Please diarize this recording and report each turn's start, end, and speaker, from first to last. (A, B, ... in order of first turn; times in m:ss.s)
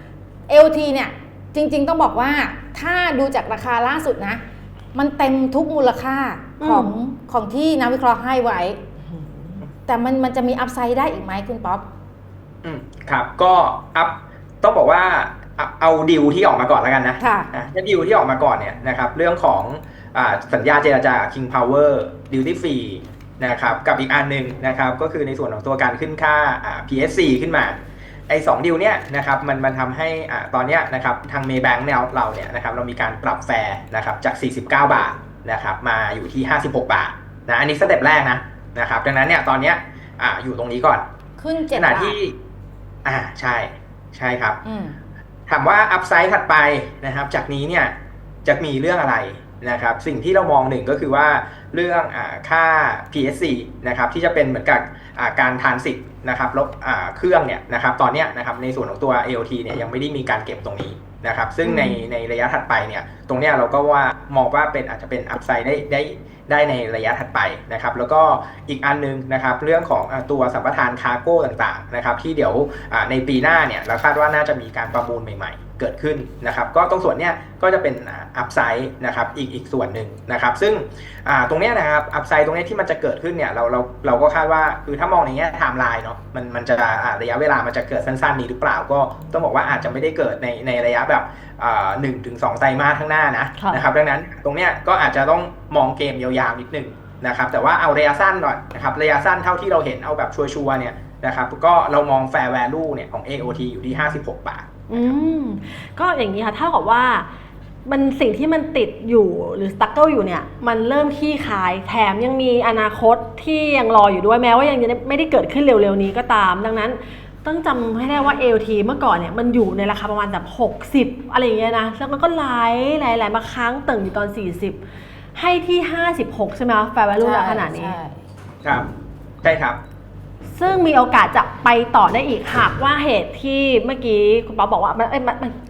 0:00.5-0:04.4 A
0:04.9-0:08.9 A
0:06.6-0:06.9 B
0:09.8-0:11.8 A
0:12.6-0:27.8 C
0:17.2-0:17.5 A
0:28.3-0:41.0 C
0:41.4-0:42.2 A
0:41.7-0:42.4 C
0:43.0-0:44.6 C
0:44.6-0:45.0 A
0:45.5-1:45.1 C
1:01.6-1:02.0 B
1:33.6-1:33.8 B
1:44.9-1:47.3 B
1:47.8-2:04.8 B
2:05.3-2:08.0 B
2:07.2-2:08.2 A
2:09.4-2:09.8 C
2:10.6-2:15.6 B